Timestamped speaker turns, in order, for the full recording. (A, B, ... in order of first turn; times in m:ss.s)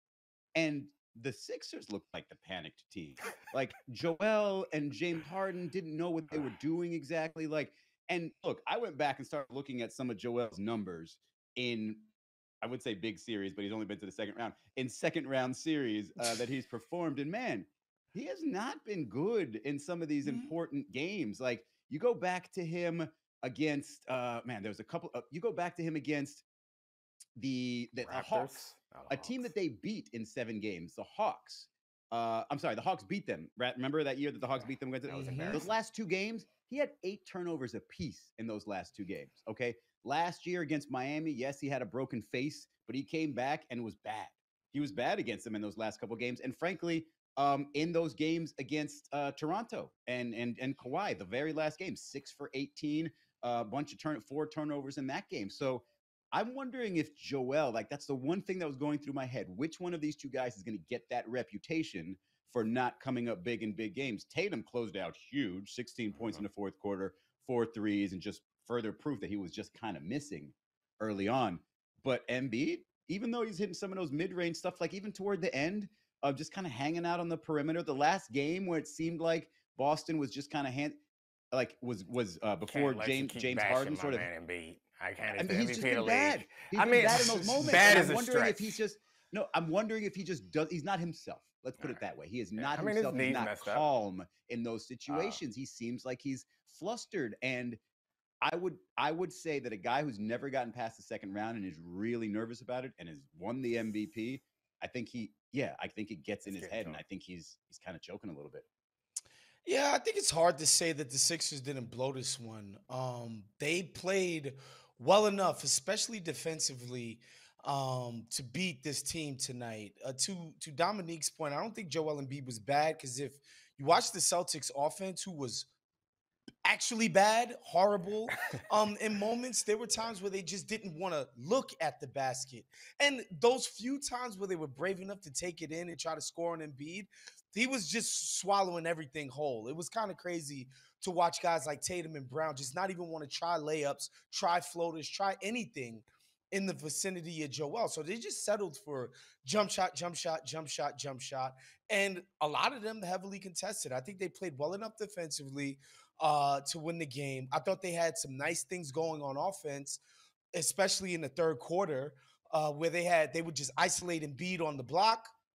0:00.6-0:12.1 A
0:12.6-0:26.4 A
0:27.4-1:21.0 A
0:28.1-0:29.5 B
0:35.1-0:35.7 B
0:35.1-0:35.6 C
1:21.5-1:24.3 A
1:22.7-1:28.8 B
1:25.2-1:37.8 A
1:27.0-1:27.8 C
1:32.6-1:33.8 B
1:35.1-1:35.4 B
1:38.4-1:48.7 A
1:46.5-1:47.0 B
1:49.7-2:05.7 C
2:06.6-2:40.0 C
2:40.5-2:45.3 C